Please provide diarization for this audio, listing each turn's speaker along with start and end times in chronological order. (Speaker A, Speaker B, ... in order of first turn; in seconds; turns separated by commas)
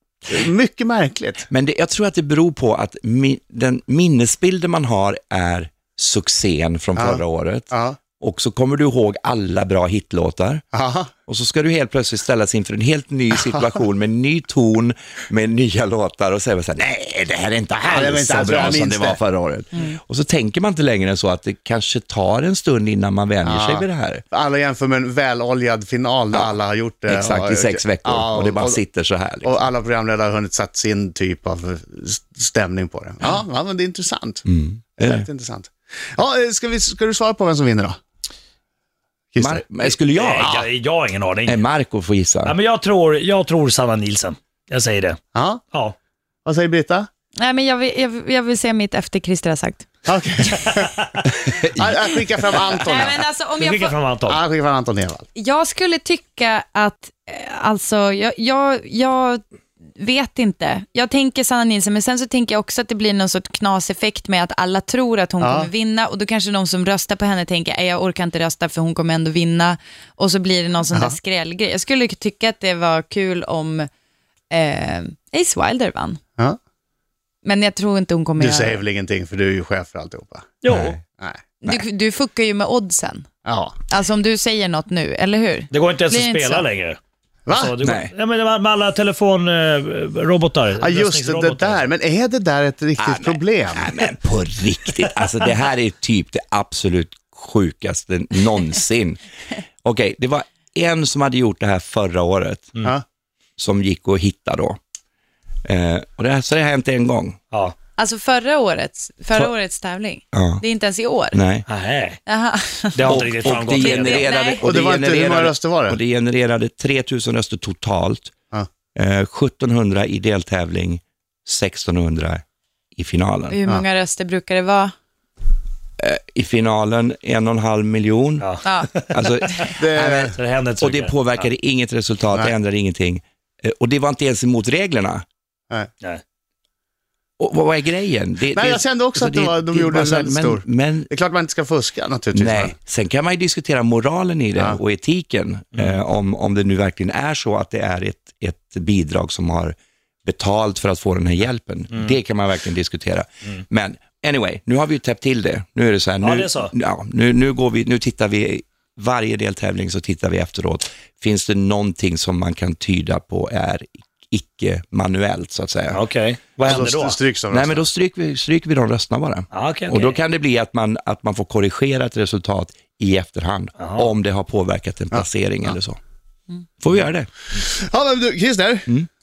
Speaker A: 0.3-1.4, Speaker B: 1.5-10.6, Speaker A: 7.0-8.0, Speaker A: 10.7-11.1, Speaker B: 11.3-24.2, Speaker A: 17.8-19.2, Speaker A: 23.4-28.8, Speaker B: 27.1-29.5, Speaker A: 29.4-34.4, Speaker B: 34.4-35.3, Speaker A: 35.0-38.0, Speaker A: 39.3-39.6, Speaker B: 39.4-40.6, Speaker C: 40.0-41.6, Speaker A: 40.3-40.7, Speaker B: 41.5-42.5, Speaker C: 42.4-45.2, Speaker A: 45.3-45.6, Speaker A: 46.4-47.1, Speaker D: 47.4-49.8, Speaker A: 50.0-50.9, Speaker C: 50.8-51.3, Speaker A: 51.6-53.2, Speaker D: 52.7-54.0, Speaker C: 53.5-54.4, Speaker A: 54.2-55.2, Speaker D: 55.3-59.4, Speaker D: 60.0-73.9, Speaker A: 65.4-65.7, Speaker A: 70.9-71.2, Speaker D: 74.5-76.2, Speaker D: 77.4-78.8, Speaker A: 78.4-80.5, Speaker C: 80.6-81.0, Speaker B: 80.7-81.0, Speaker A: 81.2-81.7, Speaker D: 81.6-83.3, Speaker A: 83.4-83.7, Speaker D: 83.9-86.7, Speaker C: 85.7-87.0, Speaker A: 87.5-87.8, Speaker C: 87.5-91.9, Speaker B: 87.8-88.1, Speaker A: 90.8-93.9, Speaker B: 93.0-99.2, Speaker B: 99.8-102.8, Speaker B: 103.6-104.8, Speaker B: 105.6-107.4, Speaker D: 108.0-111.4, Speaker B: 110.3-110.6, Speaker B: 111.3-111.7, Speaker C: 111.7-112.2, Speaker D: 112.2-114.7, Speaker C: 112.9-114.3, Speaker B: 113.0-118.3, Speaker A: 114.6-116.0, Speaker B: 118.9-122.4, Speaker B: 122.9-123.6, Speaker D: 123.5-124.9, Speaker B: 126.0-128.5, Speaker C: 128.4-129.7, Speaker D: 128.6-128.9, Speaker B: 129.1-135.2, Speaker A: 129.8-130.3, Speaker C: 130.3-131.5, Speaker B: 137.4-141.1, Speaker A: 138.5-142.8, Speaker B: 142.3-166.0, Speaker C: 151.9-152.2, Speaker C: 156.2-156.7, Speaker C: 165.9-167.2, Speaker A: 166.7-167.9, Speaker B: 167.5-176.0, Speaker C: 169.5-170.2, Speaker C: 173.8-174.1, Speaker A: 175.1-175.8, Speaker B: 176.8-177.3, Speaker A: 177.6-178.9